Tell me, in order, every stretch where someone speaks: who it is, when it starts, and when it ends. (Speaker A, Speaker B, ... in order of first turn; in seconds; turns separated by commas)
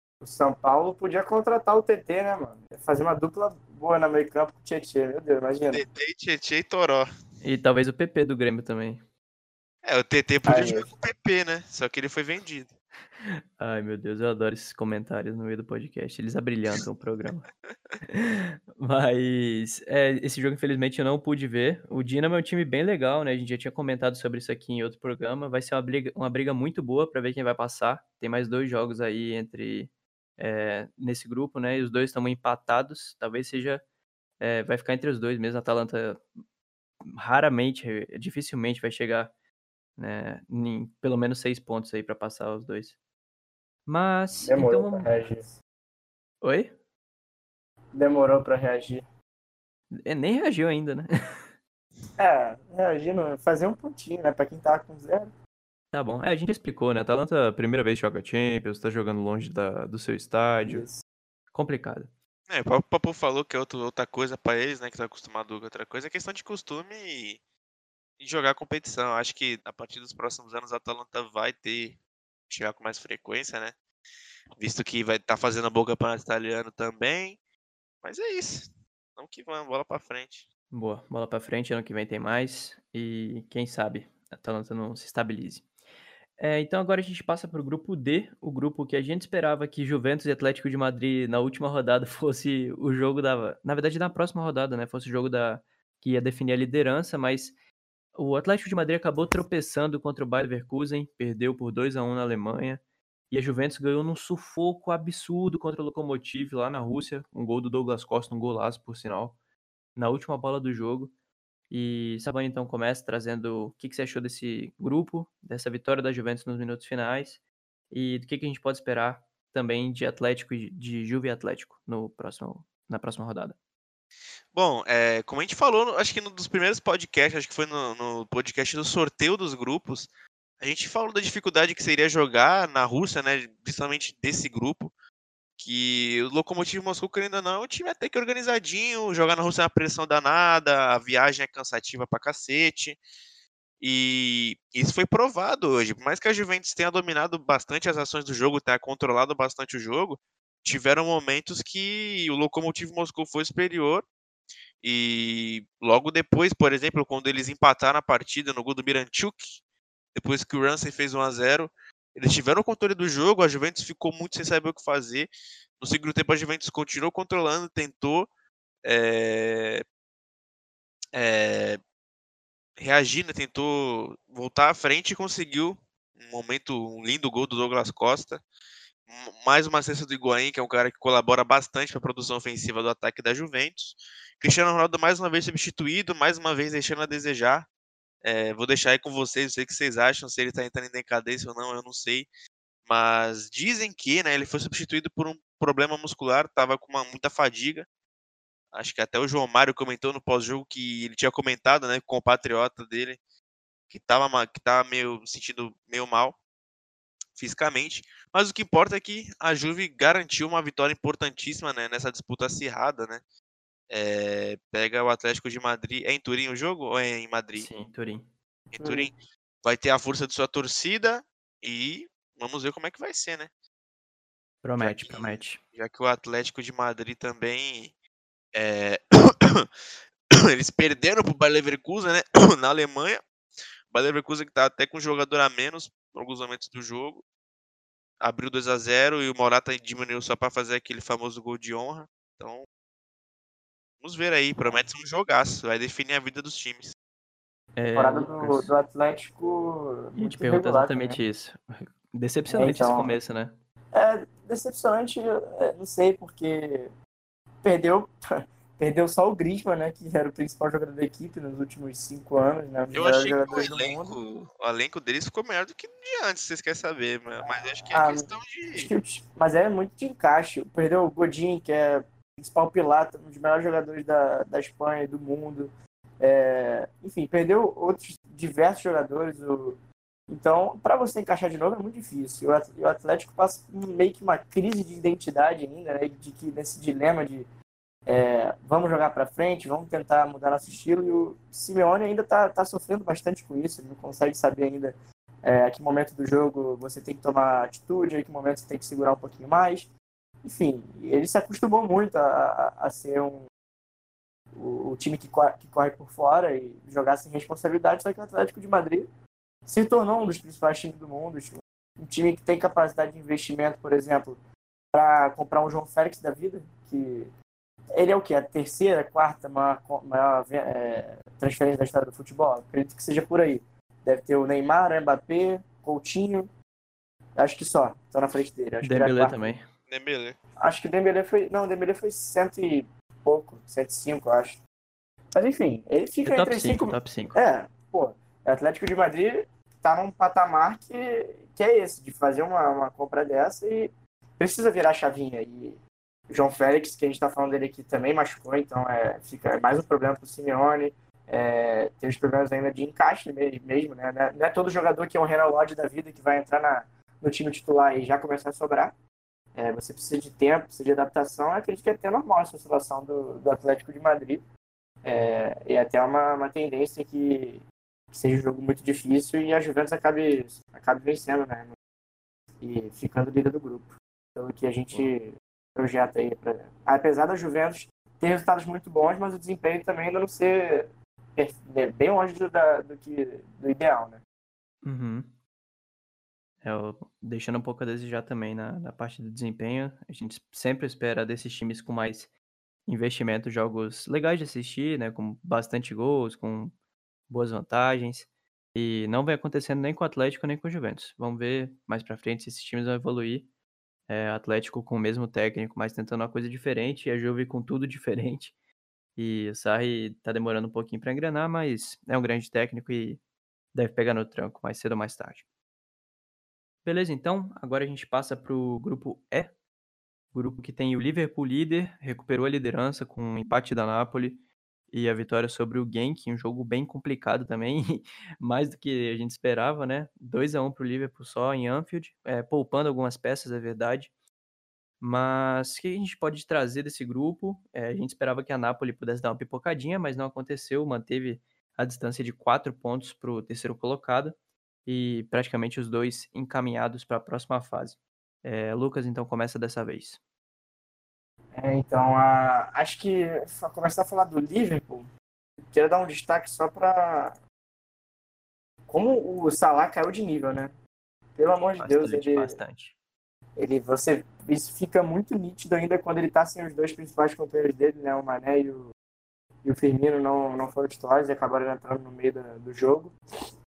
Speaker A: 0.2-5.8, Speaker B: 5.7-7.1, Speaker C: 7.4-9.0, Speaker B: 9.8-12.7, Speaker A: 10.5-10.9, Speaker C: 13.2-17.5, Speaker C: 18.1-33.8, Speaker C: 34.4-36.2, Speaker C: 37.1-39.3, Speaker C: 40.0-43.0, Speaker C: 43.9-45.1, Speaker A: 44.4-45.5, Speaker C: 46.4-46.7, Speaker A: 47.9-49.0, Speaker C: 49.9-51.5, Speaker A: 52.2-55.3, Speaker C: 55.9-60.9, Speaker A: 60.6-61.0, Speaker C: 61.5-62.1, Speaker B: 62.5-67.4, Speaker B: 68.2-72.0, Speaker B: 72.5-73.8, Speaker B: 74.6-77.4, Speaker B: 78.0-80.5, Speaker C: 80.7-85.7, Speaker C: 86.4-97.5, Speaker C: 98.2-109.3, Speaker C: 110.0-111.1, Speaker C: 111.7-117.4, Speaker C: 117.9-123.6, Speaker B: 124.5-130.1, Speaker B: 130.6-134.9, Speaker B: 135.6-143.0, Speaker B: 143.8-154.1, Speaker B: 154.8-159.6, Speaker B: 160.2-168.3, Speaker B: 168.8-169.8, Speaker B: 171.1-171.8, Speaker B: 172.8-178.4, Speaker B: 179.1-187.7, Speaker B: 188.2-192.3, Speaker B: 192.9-197.9, Speaker B: 198.7-203.2, Speaker B: 203.9-206.4, Speaker B: 207.4-213.2, Speaker B: 213.9-217.7, Speaker C: 217.6-218.3, Speaker B: 218.7-223.5, Speaker A: 218.8-219.1, Speaker C: 224.6-225.6, Speaker B: 224.8-227.9, Speaker B: 228.5-229.7, Speaker B: 230.3-233.2, Speaker B: 233.9-237.2, Speaker B: 238.2-242.7, Speaker B: 244.0-246.9, Speaker C: 247.8-248.7, Speaker A: 247.9-251.2, Speaker C: 250.2-253.6, Speaker A: 252.5-253.2, Speaker A: 253.9-256.9, Speaker A: 257.6-258.2, Speaker A: 258.8-264.2, Speaker B: 262.9-268.9, Speaker A: 267.4-287.5, Speaker A: 288.1-299.9, Speaker A: 300.4-303.5, Speaker A: 304.5-309.1, Speaker A: 309.7-314.4, Speaker A: 314.9-317.3, Speaker A: 317.9-326.5, Speaker A: 327.4-329.5, Speaker C: 328.8-329.7, Speaker B: 329.9-330.4, Speaker A: 330.6-334.6, Speaker A: 335.3-358.9, Speaker C: 336.2-337.4, Speaker A: 359.6-364.4, Speaker A: 365.0-371.7, Speaker A: 372.6-384.2, Speaker C: 384.8-385.3, Speaker C: 386.6-392.3, Speaker C: 392.9-396.7, Speaker C: 397.3-403.5, Speaker C: 404.1-408.5, Speaker C: 409.2-413.2, Speaker C: 413.7-415.4, Speaker C: 416.9-419.5, Speaker C: 420.3-424.4, Speaker C: 424.9-434.1, Speaker C: 435.0-444.4, Speaker C: 444.9-450.2, Speaker A: 451.5-455.1, Speaker A: 455.7-457.4, Speaker A: 458.9-460.8, Speaker A: 461.4-462.6, Speaker C: 461.8-462.9, Speaker A: 463.6-468.9, Speaker A: 469.6-473.2